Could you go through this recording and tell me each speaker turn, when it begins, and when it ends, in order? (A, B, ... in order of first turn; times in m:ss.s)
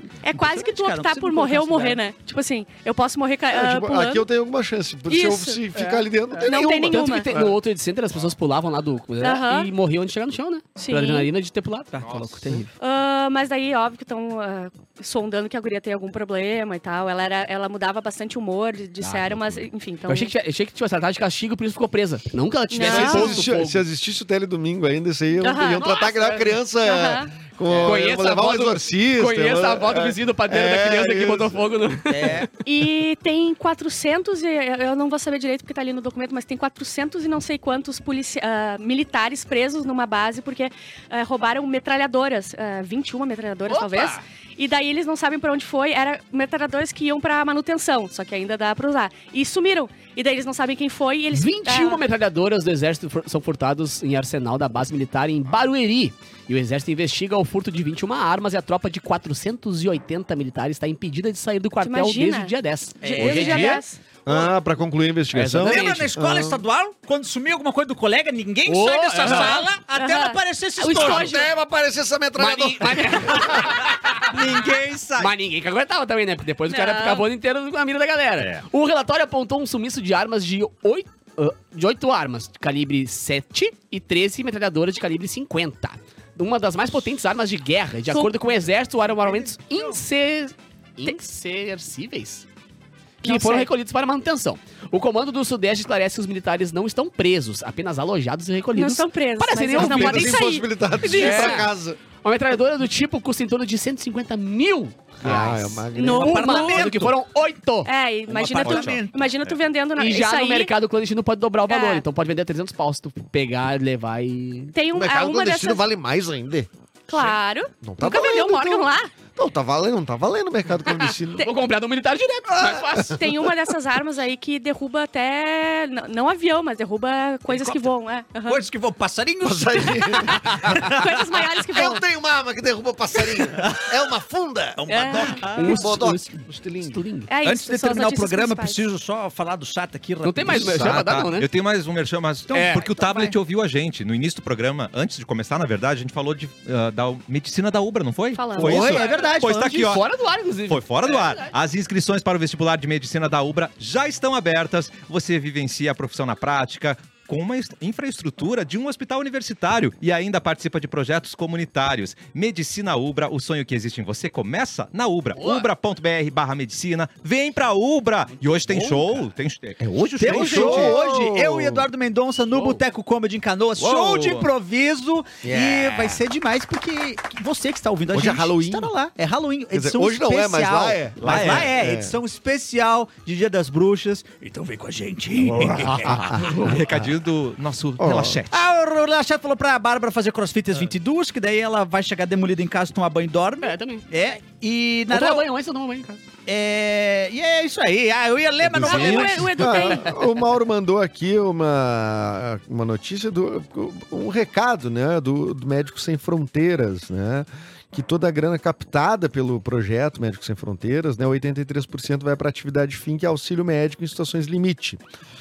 0:00.2-0:04.2 A
0:00.2-0:02.0 B
0:03.5-0:07.6 C
0:05.1-0:05.6 A
0:05.7-0:12.7 D
0:06.4-0:07.3 A
0:09.2-0:09.7 A
0:10.8-0:11.3 A
0:11.9-0:12.6 E
0:12.8-0:20.3 A
0:19.0-0:19.7 E
0:20.1-0:23.8 D
0:22.7-0:23.4 A
0:22.8-0:31.7 C
0:25.4-0:25.9 A
0:25.8-0:26.6 D
0:26.8-0:27.3 A
0:27.8-0:32.5 D
0:32.1-0:32.5 B
0:32.6-0:52.0 A
0:43.7-0:44.2 D
0:51.3-1:03.8 D
1:01.8-1:04.0 A
1:03.0-1:04.5 B
1:04.2-1:06.6 C
1:05.3-1:06.1 D
1:05.6-1:11.4 B
1:08.6-1:09.6 D
1:09.3-1:11.5 A
1:11.0-1:13.8 C
1:12.4-1:14.4 D
1:13.5-1:15.3 B
1:15.2-1:32.5 D
1:16.7-1:17.3 A
1:18.4-1:18.6 E
1:29.0-1:30.0 B
1:33.2-1:33.7 A
1:33.2-1:40.4 D
1:38.8-1:41.7 A
1:39.7-1:42.0 C
1:41.1-1:47.9 D
1:45.2-1:46.4 C
1:45.9-1:46.8 A
1:46.1-1:47.2 B
1:47.8-1:50.7 A
1:48.3-1:49.6 B
1:48.6-1:49.0 D
1:50.0-1:54.8 D
1:51.7-1:52.0 A
1:54.7-1:55.8 A
1:54.9-2:01.5 C
1:57.1-1:59.1 A
2:00.9-2:03.2 D
2:02.5-2:03.4 C
2:03.1-2:08.6 A
2:07.5-2:07.8 B
2:08.4-2:11.1 B
2:09.4-2:10.8 C
2:10.7-2:12.0 A
2:11.7-2:14.9 C
2:13.3-2:14.0 B
2:14.8-2:15.9 B
2:14.9-2:15.8 A
2:15.5-2:17.0 C
2:15.5-2:17.3 D
2:17.3-2:18.8 A
2:17.4-2:21.0 B
2:20.2-2:21.5 D
2:20.5-2:30.0 E
2:22.5-2:22.9 D
2:23.0-2:23.3 A
2:28.3-2:28.9 A
2:28.5-2:29.8 B
2:28.6-2:31.5 D
2:30.7-2:51.0 E
2:45.4-2:45.7 D
2:48.3-2:49.3 D
2:50.2-3:06.3 B
2:50.2-2:51.9 C
2:52.5-2:52.8 D
2:53.8-2:54.5 E
2:55.4-2:56.2 C
2:58.1-2:58.9 C
2:59.7-3:02.2 C
3:01.2-3:01.7 E
3:05.5-3:08.6 E
3:06.0-3:07.1 C
3:06.2-3:06.8 D
3:08.0-3:08.4 C
3:08.5-3:15.5 B
3:13.6-3:14.1 D
3:15.1-3:16.2 D
3:16.4-3:19.5 B
3:18.6-3:35.0 C
3:18.8-3:20.0 D
3:18.8-3:20.2 A